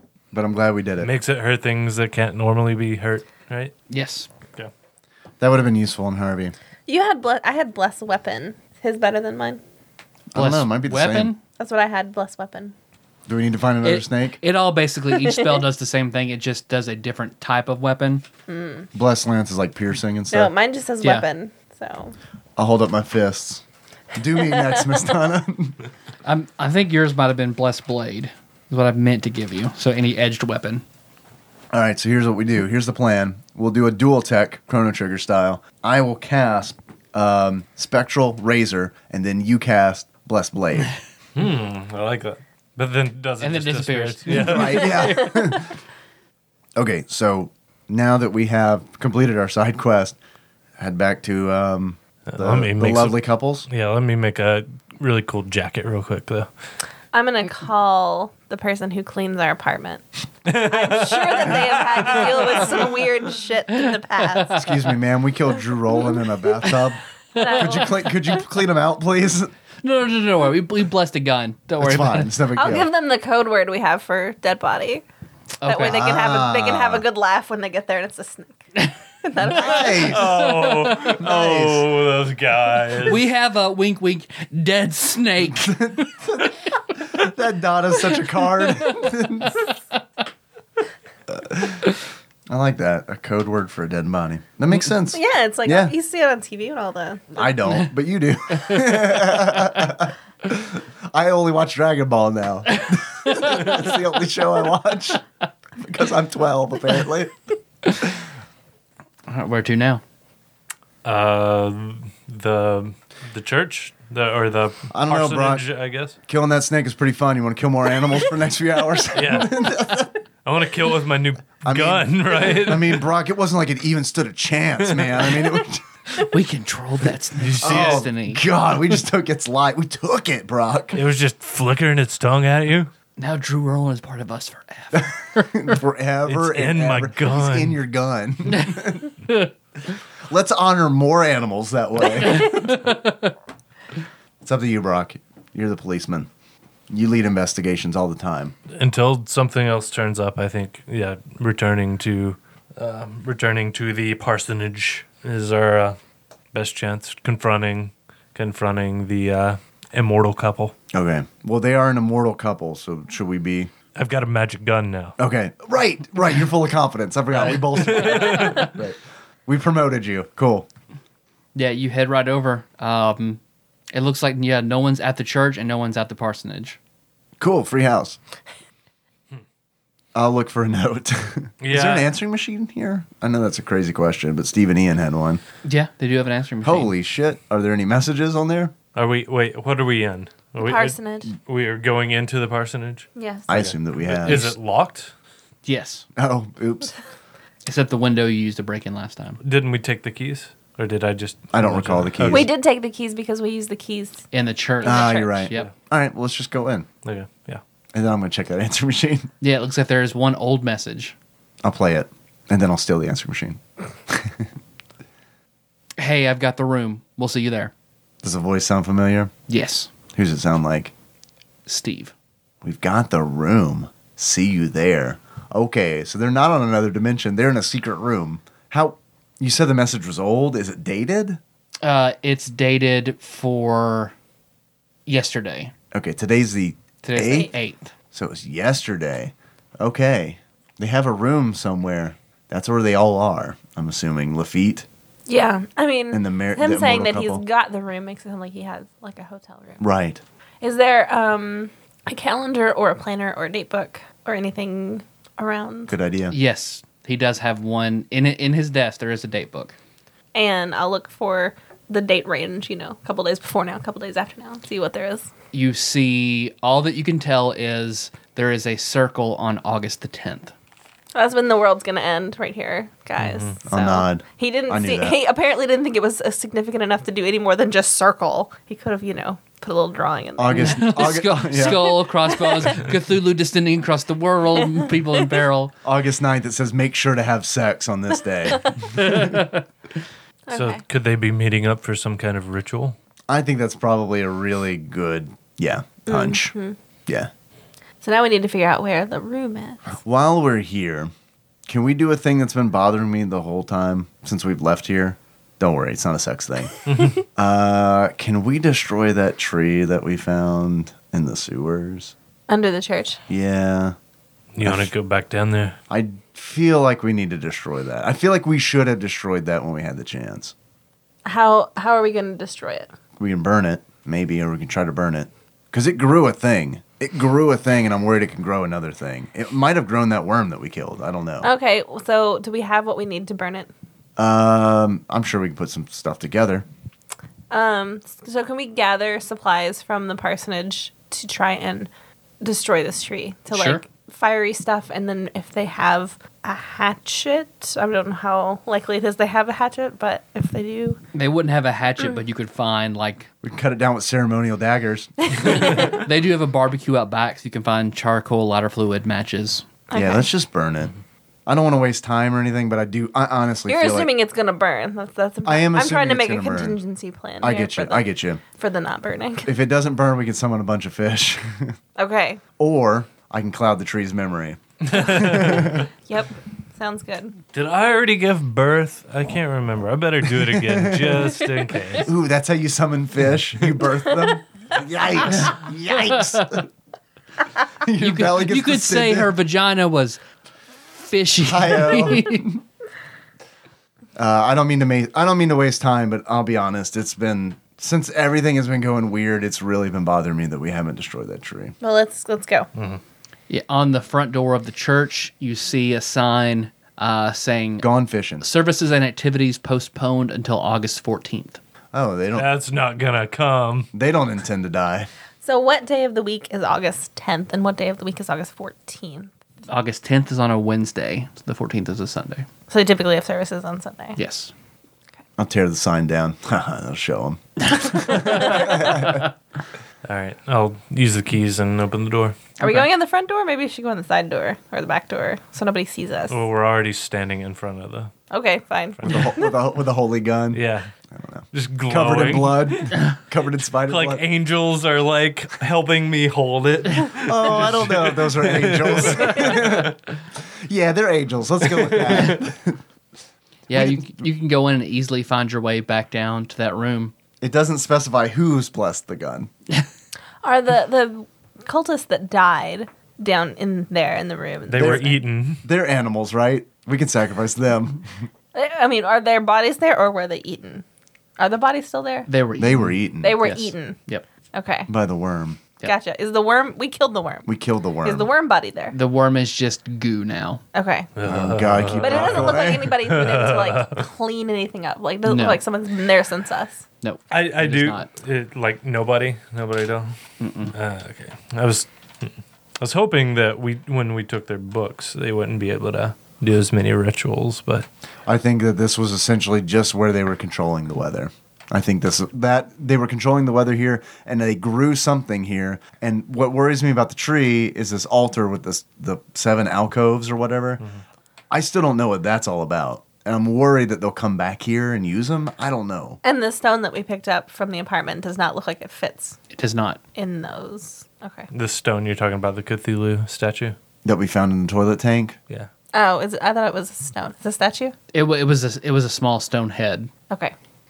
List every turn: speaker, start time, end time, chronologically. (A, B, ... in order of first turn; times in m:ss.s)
0:00.3-0:01.1 A
0:01.0-0:03.7 B
0:03.9-0:04.3 C
0:05.4-0:06.5 A
0:06.9-0:09.6 D
0:10.3-0:11.3 A
0:10.3-0:11.4 C
0:11.6-0:12.7 D
0:13.3-0:14.4 A
0:13.8-0:18.2 C
0:15.1-0:15.6 D
0:18.5-0:18.9 D
0:18.9-0:20.5 A
0:20.3-0:22.2 D
0:21.0-0:21.3 C
0:22.6-0:23.6 A
0:24.2-0:25.8 A
0:26.2-0:30.8 C
0:31.7-0:40.9 A
0:41.4-0:45.0 B
0:43.4-0:45.7 C
0:44.3-0:45.7 A
0:46.8-0:50.2 A
0:50.8-0:53.7 A
0:52.3-0:56.5 B
0:57.1-1:04.7 D
1:00.5-1:03.0 B
1:03.8-1:04.7 C
1:04.6-1:09.5 A
1:07.4-1:07.8 C
1:07.4-1:08.2 D
1:09.8-1:12.4 C
1:11.8-1:12.9 A
1:12.6-1:15.0 D
1:15.6-1:16.0 C
1:15.6-1:20.2 D
1:15.8-1:17.0 A
1:19.5-1:20.4 A
1:19.9-1:23.2 B
1:20.4-1:20.9 C
1:20.9-1:21.9 A
1:23.0-1:26.1 C
1:25.5-1:26.5 A
1:27.1-1:29.7 A
1:28.7-1:29.1 C
1:31.3-1:31.9 A
1:32.5-1:36.0 A
1:35.1-1:37.4 D
1:37.4-1:45.2 A
1:43.3-1:43.6 C
1:45.8-1:47.4 A
1:49.3-1:50.0 C
1:51.0-1:56.2 B
1:54.9-1:55.6 A
1:56.3-2:00.2 A
1:59.2-1:59.8 B
2:00.4-2:03.1 B
2:01.6-2:05.8 A
2:06.2-2:08.4 C
2:07.4-2:08.1 B
2:07.6-2:11.0 A
2:10.9-2:12.9 B
2:13.2-2:15.8 C
2:14.9-2:19.1 A
2:16.3-2:17.8 B
2:18.5-2:19.5 C
2:20.3-2:22.8 A
2:22.2-2:23.3 C
2:24.4-2:26.3 A
2:26.9-2:28.6 A
2:28.7-2:36.0 B
2:36.5-2:40.7 B
2:40.9-2:43.7 A
2:44.0-2:45.2 B
2:45.2-2:50.7 A
2:47.5-2:48.7 B
2:51.6-2:53.4 C
2:53.9-2:56.8 C
2:57.4-2:58.2 A
3:00.1-3:05.4 A
3:01.6-3:02.1 B
3:05.6-3:06.9 C
3:06.6-3:08.7 A
3:09.0-3:15.1 B
3:10.6-3:11.3 D
3:13.2-3:13.6 D
3:13.5-3:14.6 A
3:15.6-3:16.1 C
3:16.2-3:16.9 A
3:17.6-3:19.4 C
3:19.4-3:22.5 B
3:21.5-3:22.5 A
3:22.3-3:24.3 D
3:24.3-3:25.7 C
3:24.8-3:25.5 D
3:24.8-3:26.9 A
3:27.0-3:27.6 B
3:27.9-3:29.3 A
3:29.4-3:31.2 C
3:31.6-3:34.5 A
3:36.0-3:37.7 C
3:38.2-3:39.3 A
3:39.5-3:39.9 C
3:40.1-3:40.9 A
3:41.7-3:42.1 C
3:42.6-3:51.4 A
3:51.8-3:54.2 C
3:55.1-3:55.7 C
3:55.9-3:57.5 A
3:57.0-3:57.9 C
3:57.2-3:57.5 D
3:58.1-4:04.9 A
4:05.3-4:09.8 D
4:06.1-4:07.4 A
4:09.8-4:10.2 A
4:10.6-4:16.0 D
4:15.9-4:16.4 A
4:16.3-4:19.8 C
4:20.3-4:25.3 D
4:25.5-4:30.5 C
4:31.2-4:42.7 D
4:33.2-4:33.6 B
4:33.7-4:35.2 A
4:40.4-4:41.9 A
4:40.5-4:45.7 C
4:45.8-4:49.4 A
4:49.0-4:49.6 C
4:50.5-4:50.8 D
4:50.5-4:53.0 B
4:53.3-4:56.5 A
4:56.1-4:56.8 D
4:58.0-5:00.0 D
5:00.0-5:01.1 A
5:01.7-5:06.8 A
5:06.9-5:07.2 B
5:07.4-5:12.1 A
5:12.5-5:13.2 D
5:13.3-5:14.0 A
5:14.6-5:15.8 B
5:14.6-5:14.9 A
5:15.9-5:20.5 A
5:21.2-5:22.9 D
5:23.2-5:31.5 A
5:31.4-5:33.7 D
5:34.2-5:36.6 A
5:37.5-5:41.9 D
5:42.4-5:51.0 D
5:43.5-5:43.8 C
5:51.1-5:53.3 C
5:53.4-5:55.9 A
5:55.3-5:56.0 D
5:55.5-5:59.7 C
5:59.9-6:00.3 D
5:59.9-6:00.9 A
6:01.5-6:04.1 A
6:03.7-6:09.5 D
6:05.4-6:06.8 A
6:07.4-6:08.4 A
6:09.4-6:11.8 A
6:12.0-6:12.4 D
6:12.6-6:15.9 A
6:14.9-6:15.8 B
6:15.3-6:17.4 D
6:17.5-6:22.1 B
6:20.5-6:21.3 A
6:22.0-6:26.7 A
6:27.8-6:29.3 A
6:28.0-6:30.2 C
6:31.0-6:32.5 C
6:31.4-6:32.6 A
6:34.2-6:41.8 A
6:41.8-6:42.7 D
6:42.8-6:43.0 B
6:43.5-6:47.9 C
6:47.8-6:48.4 A
6:48.4-6:51.6 C
6:51.9-6:52.5 A
6:52.4-6:53.9 B
6:53.9-6:55.1 A
6:55.4-6:59.3 D
6:59.7-7:02.5 C
7:02.7-7:04.2 D
7:04.2-7:04.5 C
7:05.4-7:09.3 A
7:07.7-7:08.7 C
7:10.0-7:12.5 B
7:12.6-7:16.4 D
7:16.3-7:18.1 B
7:18.3-7:19.5 D
7:19.0-7:19.3 B
7:19.0-7:24.2 A
7:20.5-7:20.9 B
7:21.5-7:23.1 B
7:23.8-7:30.0 B
7:27.2-7:32.8 A
7:31.7-7:32.4 B
7:33.7-7:37.1 C
7:33.7-7:34.0 A
7:37.4-7:39.5 A
7:40.4-7:45.2 D
7:44.7-7:45.6 B
7:44.8-7:45.1 A
7:45.6-7:48.3 A
7:48.5-7:50.8 D
7:51.4-7:52.3 D
7:52.3-7:54.2 C
7:52.6-7:53.4 A
7:53.2-7:54.0 D
7:54.5-7:54.9 D
7:54.9-7:55.6 A
7:55.8-7:57.5 D
7:57.5-7:58.3 A
7:58.0-7:59.0 D
7:58.9-8:00.6 C
8:00.7-8:01.1 D
8:01.2-8:04.1 B
8:01.2-8:02.9 A
8:02.0-8:06.8 D
8:05.3-8:05.6 C
8:07.0-8:08.1 C
8:07.3-8:10.2 B
8:10.4-8:10.8 C
8:10.7-8:17.9 B
8:18.3-8:30.8 A
8:31.5-8:36.2 A
8:36.2-8:39.4 D
8:39.5-8:40.0 C
8:40.2-8:41.5 D
8:41.5-8:43.8 B
8:44.0-8:45.4 A
8:45.9-8:47.9 D
8:48.1-8:50.1 C